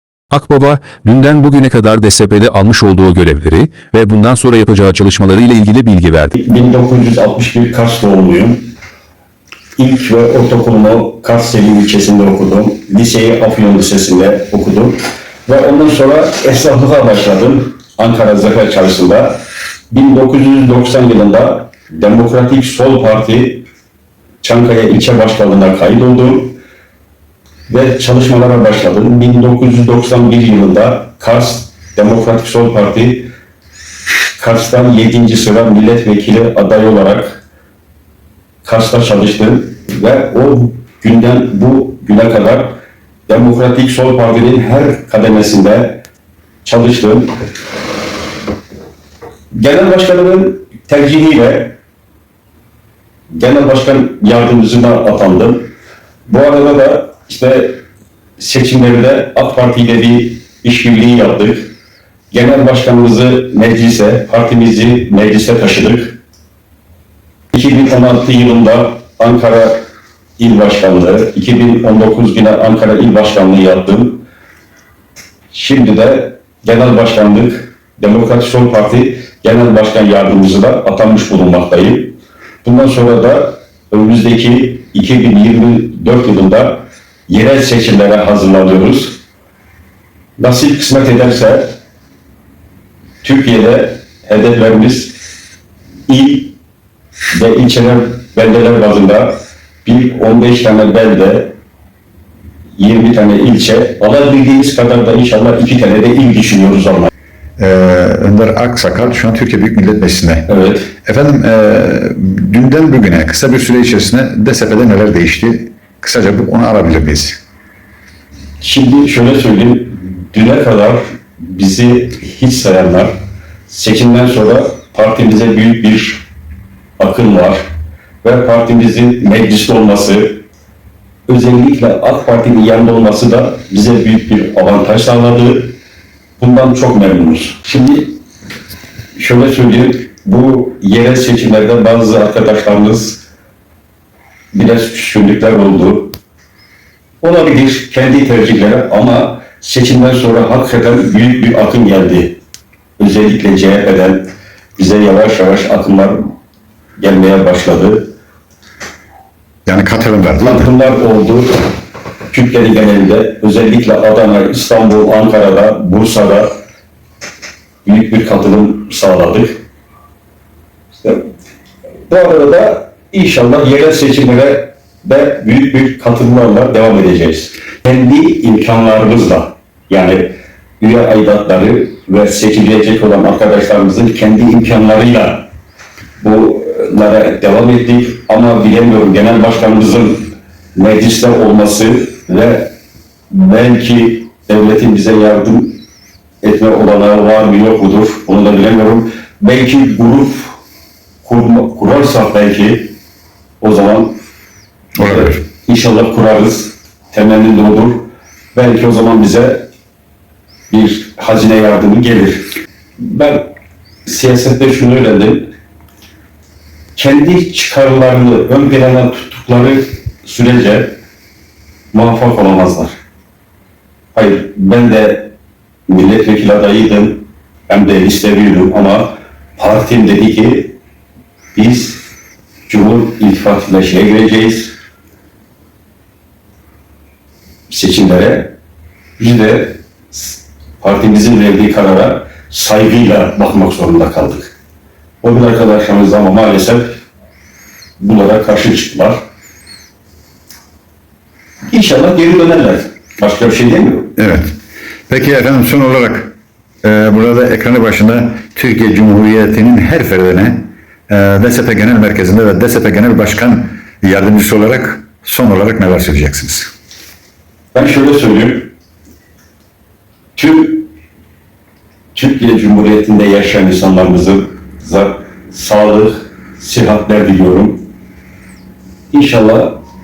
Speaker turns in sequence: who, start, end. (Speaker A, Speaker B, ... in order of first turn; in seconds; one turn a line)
Speaker A: 0.3-6.3
Speaker B: 6.4-8.7
Speaker B: 9.8-19.4
Speaker B: 19.9-23.6
Speaker B: 24.4-26.6
Speaker B: 27.7-33.3
Speaker B: 34.4-37.4
Speaker B: 38.6-46.0
Speaker B: 46.6-47.3
Speaker B: 49.5-51.8
Speaker B: 53.3-55.7
Speaker B: 56.3-57.8
Speaker B: 58.4-61.7
Speaker B: 62.3-66.2
Speaker B: 67.5-69.8
Speaker B: 70.4-74.2
Speaker B: 75.5-89.2
Speaker B: 90.4-91.8
Speaker B: 93.2-95.2
Speaker B: 96.1-96.5
Speaker B: 97.3-101.5
Speaker B: 102.8-107.1
Speaker C: 107.6-110.5
Speaker B: 110.5-110.9
Speaker C: 111.0-117.4
Speaker B: 118.6-123.1
Speaker B: 123.7-126.2
Speaker B: 127.0-127.7
Speaker B: 128.2-130.4
Speaker B: 131.3-135.8
Speaker B: 136.4-138.2
Speaker B: 139.2-143.2
Speaker B: 144.5-146.1
Speaker B: 147.2-152.4
Speaker B: 153.0-156.3
Speaker B: 157.0-158.1
Speaker C: 159.7-160.7
Speaker B: 160.4-161.6
Speaker B: 162.3-166.6
Speaker B: 167.8-169.6
Speaker B: 171.0-171.3
Speaker B: 172.1-185.5
Speaker B: 186.2-192.7
Speaker B: 193.3-195.8
Speaker B: 196.4-200.6
Speaker B: 201.2-202.9
Speaker B: 203.6-204.2
Speaker C: 205.0-205.4
Speaker B: 205.0-209.7
Speaker B: 210.7-212.5
Speaker B: 213.0-213.5
Speaker B: 214.1-215.5
Speaker B: 217.0-220.9
Speaker B: 221.9-223.0
Speaker B: 224.1-225.3
Speaker B: 225.9-230.7
Speaker B: 231.5-232.0
Speaker B: 232.7-234.7
Speaker B: 237.7-238.5
Speaker B: 239.2-244.5
Speaker B: 245.2-247.0
Speaker B: 248.0-249.2
Speaker B: 251.7-254.1
Speaker C: 254.2-254.5
Speaker C: 255.1-266.7
Speaker B: 267.7-268.7
Speaker B: 270.4-270.9
Speaker B: 272.1-277.8
Speaker B: 279.1-279.8